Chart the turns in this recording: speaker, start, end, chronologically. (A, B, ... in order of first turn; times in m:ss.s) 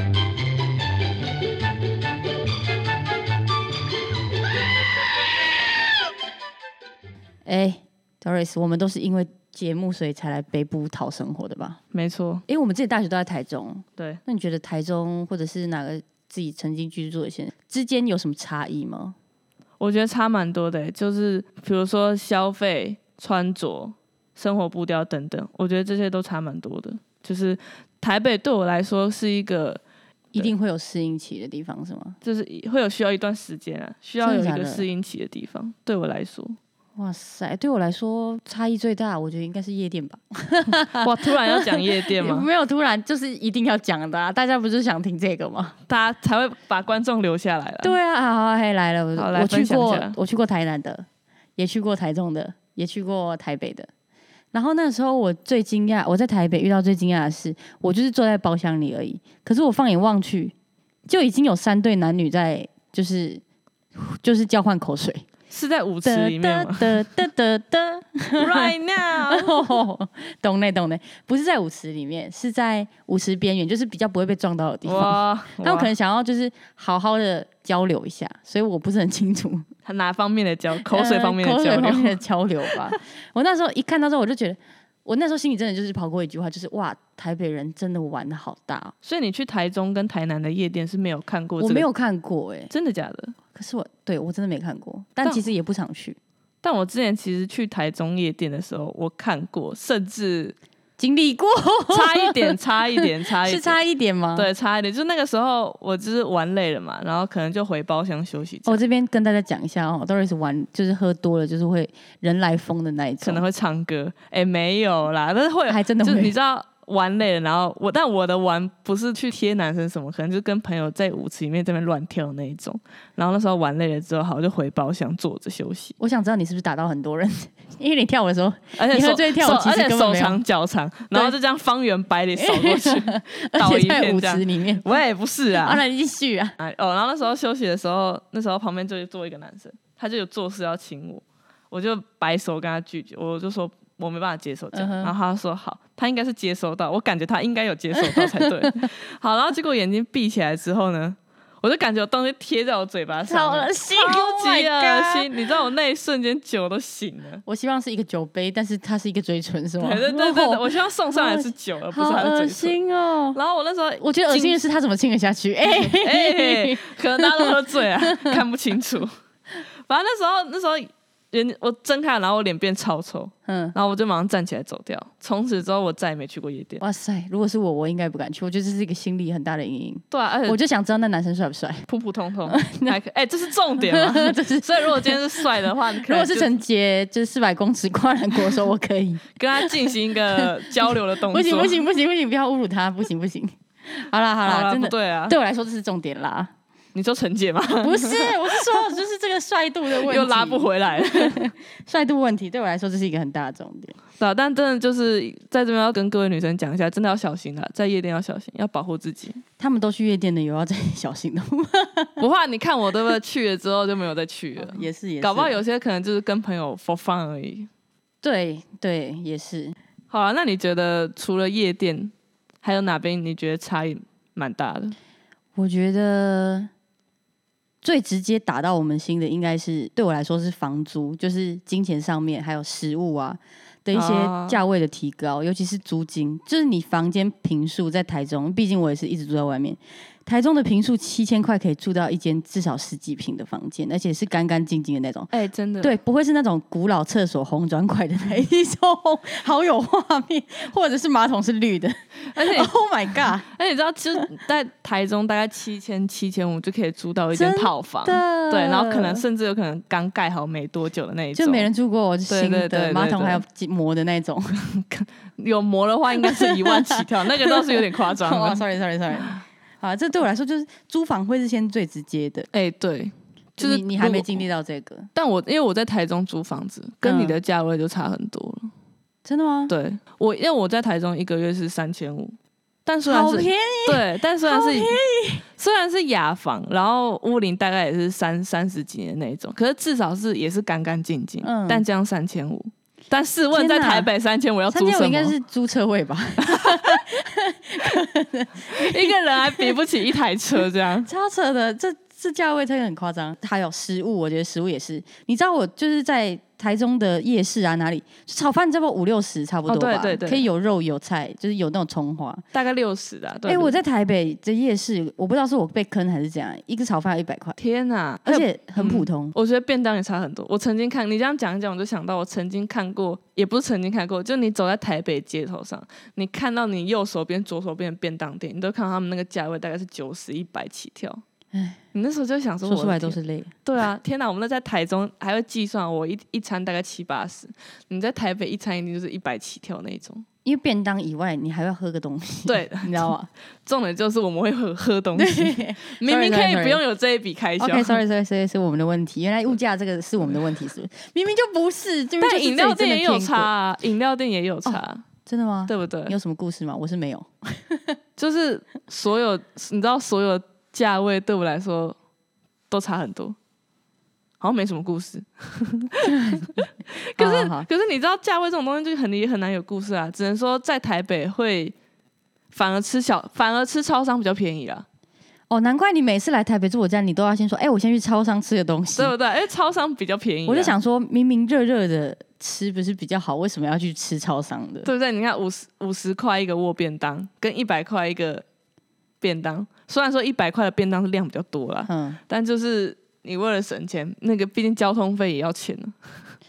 0:07.4-0:11.8 A
0:11.9-0:12.4 B
0:12.5-0:19.2 A
0:19.8-0:29.8 B
0:30.3-0:32.2 A
0:32.2-0:36.6 B
0:34.2-0:34.8 A
0:37.0-0:45.8 A
0:40.9-0:42.5 B
0:45.9-0:48.0 B
0:47.8-0:51.0 A
0:49.2-0:50.2 B
0:51.6-0:53.9 A
0:54.5-1:00.6 A
1:01.1-1:03.4 A
1:04.0-1:05.3 A
1:05.5-1:07.1 B
1:06.0-1:19.7 A
1:08.4-1:09.8 B
1:14.9-1:15.9 B
1:19.8-1:22.2 B
1:20.8-1:28.9 A
1:29.0-1:31.9 B
1:31.6-1:32.7 A
1:32.7-1:33.4 B
1:33.5-1:36.2 A
1:36.6-1:40.6 B
1:41.0-1:44.5 A
1:41.9-1:43.8 B
1:44.4-1:48.8 B
1:48.7-1:53.4 A
1:53.2-2:06.0 B
1:55.7-1:56.3 A
2:06.0-2:10.4 A
2:08.8-2:15.8 B
2:12.4-2:14.9 A
2:15.6-2:16.6 A
2:16.6-2:37.4 B
2:24.7-2:25.1 A
2:28.0-2:28.7 A
2:33.3-2:35.3 A
2:37.5-2:43.4 A
2:39.8-2:42.8 B
2:43.4-2:44.6 B
2:44.0-2:48.4 A
2:45.7-2:49.1 B
2:49.9-2:56.8 B
2:53.5-2:53.8 A
2:56.8-3:01.8 A
3:00.1-3:00.6 B
3:01.9-3:06.5 B
3:02.5-3:03.0 A
3:03.8-3:16.5 A
3:09.4-3:11.8 B
3:14.4-3:15.4 B
3:17.0-3:18.8 B
3:17.8-3:24.0 A
3:20.0-3:21.4 B
3:24.2-3:29.4 B
3:29.6-3:32.2 A
3:32.2-3:37.7 B
3:34.6-3:35.6 A
3:38.2-3:39.8 A
3:40.1-3:45.0 B
3:45.6-3:46.7 A
3:47.8-4:13.5 A
3:53.9-3:54.6 B
4:05.3-4:06.0 B
4:12.3-4:12.7 B
4:13.5-4:21.7 B
4:17.3-4:19.2 A
4:21.4-4:24.6 A
4:22.3-4:23.4 B
4:24.7-4:28.6 B
4:26.2-4:32.5 A
4:32.5-4:34.4 B
4:33.6-4:35.1 A
4:35.2-4:38.7 B
4:37.0-4:37.4 A
4:39.2-4:39.7 A
4:39.7-4:42.4 B
4:42.9-4:45.0 B
4:43.1-4:45.4 A
4:45.6-4:55.4 B
4:51.4-4:51.8 A
4:53.5-4:54.1 A
4:54.7-4:59.8 A
4:56.4-4:56.9 B
4:58.7-5:01.1 B
5:01.1-5:12.4 A
5:09.7-5:10.5 B
5:12.5-5:13.8 B
5:13.5-5:17.6 A
5:17.6-5:31.2 B
5:18.2-5:19.3 A
5:31.5-5:31.8 A
5:31.9-5:40.2 B
5:32.7-5:33.5 A
5:40.4-5:43.3 A
5:42.5-5:43.1 B
5:43.6-5:48.0 B
5:45.2-5:46.8 A
5:47.6-5:53.5 A
5:52.2-5:55.1 B
5:54.6-5:58.0 A
5:55.7-5:56.2 B
5:58.2-6:02.0 B
6:02.7-6:03.4 B
6:04.4-6:11.8 B
6:06.1-6:06.4 A
6:07.2-6:07.7 A
6:12.5-6:14.9 B
6:15.5-6:19.1 A
6:19.0-6:20.8 B
6:20.5-6:24.9 A
6:24.8-6:28.4 B
6:29.2-6:36.3 B
6:31.9-6:32.2 A